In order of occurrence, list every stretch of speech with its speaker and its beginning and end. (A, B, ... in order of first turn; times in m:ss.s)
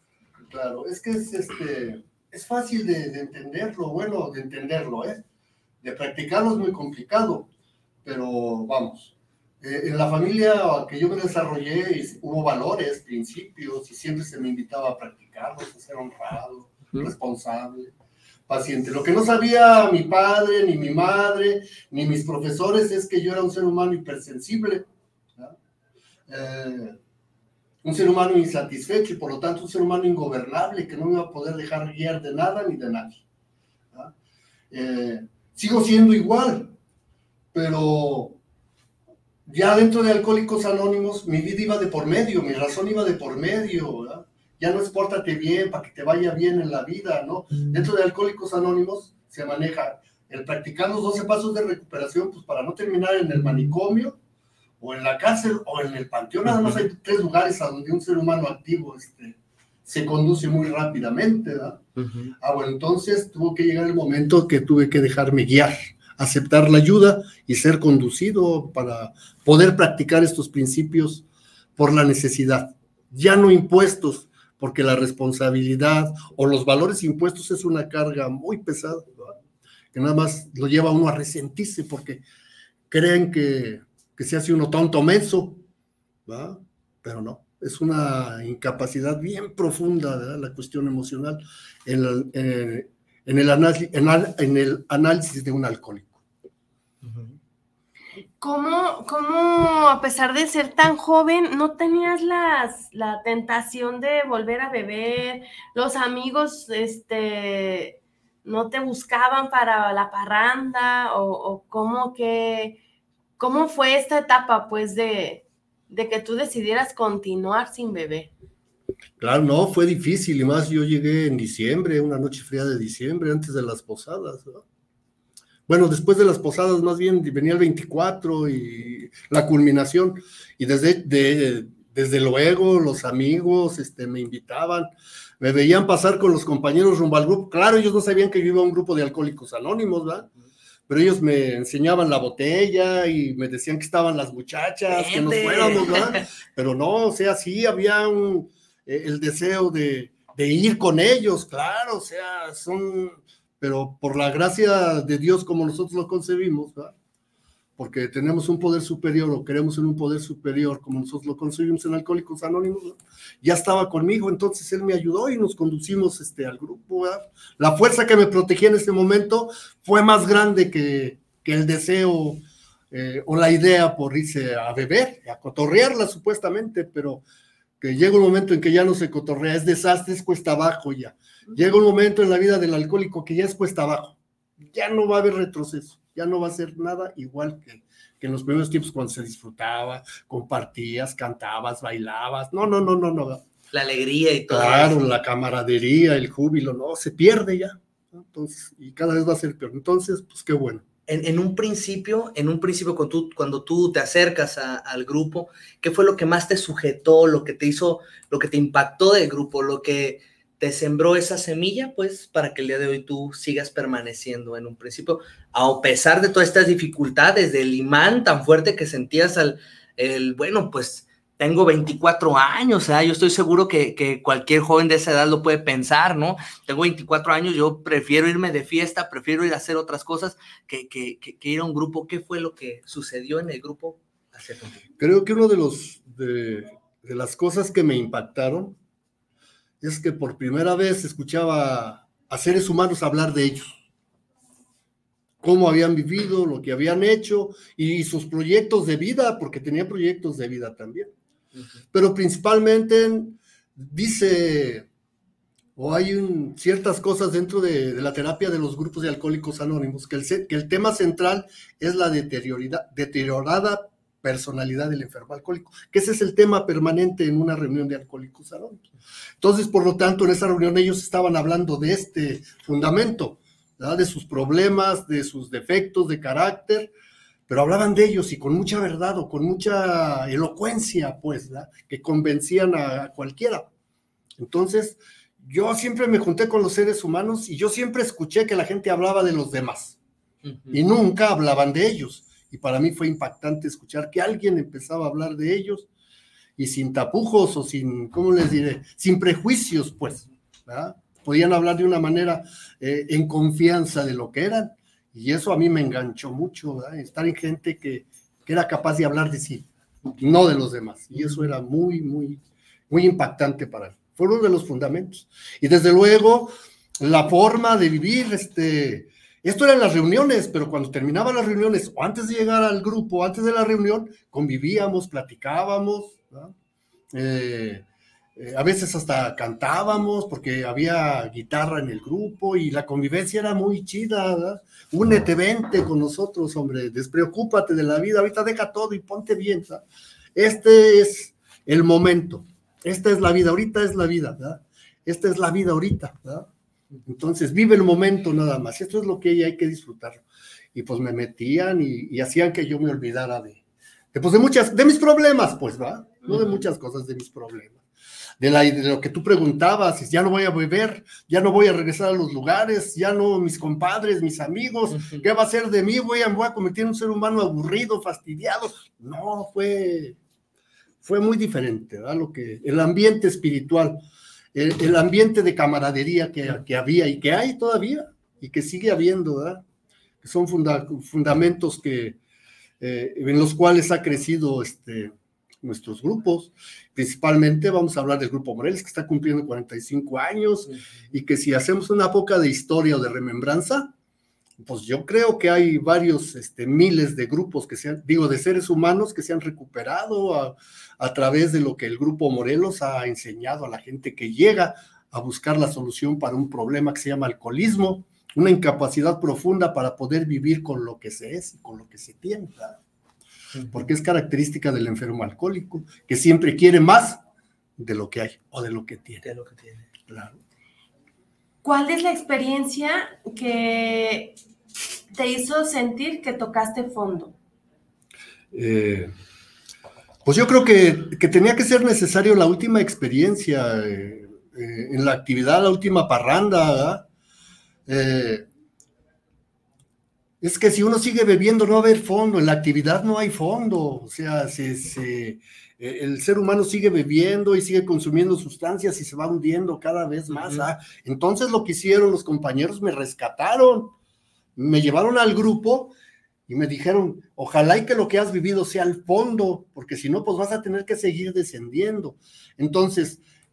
0:00.5-0:05.2 A
0:05.8-0:07.5 A
0:08.0-0:17.9 A
0:18.5-0:25.6 A
0:26.3-0:27.0 A
0:27.8-0:33.2 A
0:34.7-0:36.7 A
0:37.5-0:38.4 A
0:39.4-0:54.2 A
0:54.8-1:01.8 A
0:56.5-0:56.8 B
1:02.0-1:02.3 B
1:02.4-1:11.2 A
1:11.8-1:19.4 A
1:19.9-1:22.2 A
1:22.9-1:25.6 A
1:26.3-1:36.2 A
1:37.0-1:37.3 B
1:38.4-1:52.8 C
1:53.4-1:58.3 C
1:59.2-2:04.6 A
2:05.7-2:14.9 A
2:15.4-2:20.3 A
2:20.9-2:36.9 A
2:24.9-2:26.2 B
2:37.8-2:57.2 A
2:57.8-3:04.2 A
3:04.7-3:13.4 A
3:13.7-3:15.0 B
3:14.5-3:20.8 A
3:21.1-3:54.8 B
3:55.0-3:58.8 A
3:59.8-4:03.8 A
4:05.4-4:11.1 A
4:11.9-4:14.9 A
4:15.8-4:28.8 A
4:29.4-4:36.9 A
4:37.5-4:43.7 A
4:44.4-4:50.0 A
4:50.4-4:50.8 B
4:50.7-4:55.9 A
4:56.6-5:09.7 A
5:10.2-5:26.5 A
5:27.1-5:39.8 A
5:40.3-5:46.5 A
5:47.0-5:50.2 A
5:50.7-5:53.6 A
5:54.1-5:57.8 A
5:58.4-6:10.2 A
6:05.0-6:05.2 B
6:11.0-6:14.0 A
6:14.5-6:19.6 A
6:20.2-6:22.2 A
6:22.8-6:33.9 A
6:34.6-6:52.8 A
6:53.7-6:57.2 A
6:57.8-6:59.2 A
6:59.2-6:59.8 B
7:00.1-7:00.4 A
7:01.6-7:04.4 C
7:05.1-7:07.3 C
7:08.5-7:09.1 A
7:10.2-7:17.1 A
7:17.9-7:18.4 A
7:20.4-7:33.9 A
7:34.6-7:35.9 A
7:36.5-7:43.2 A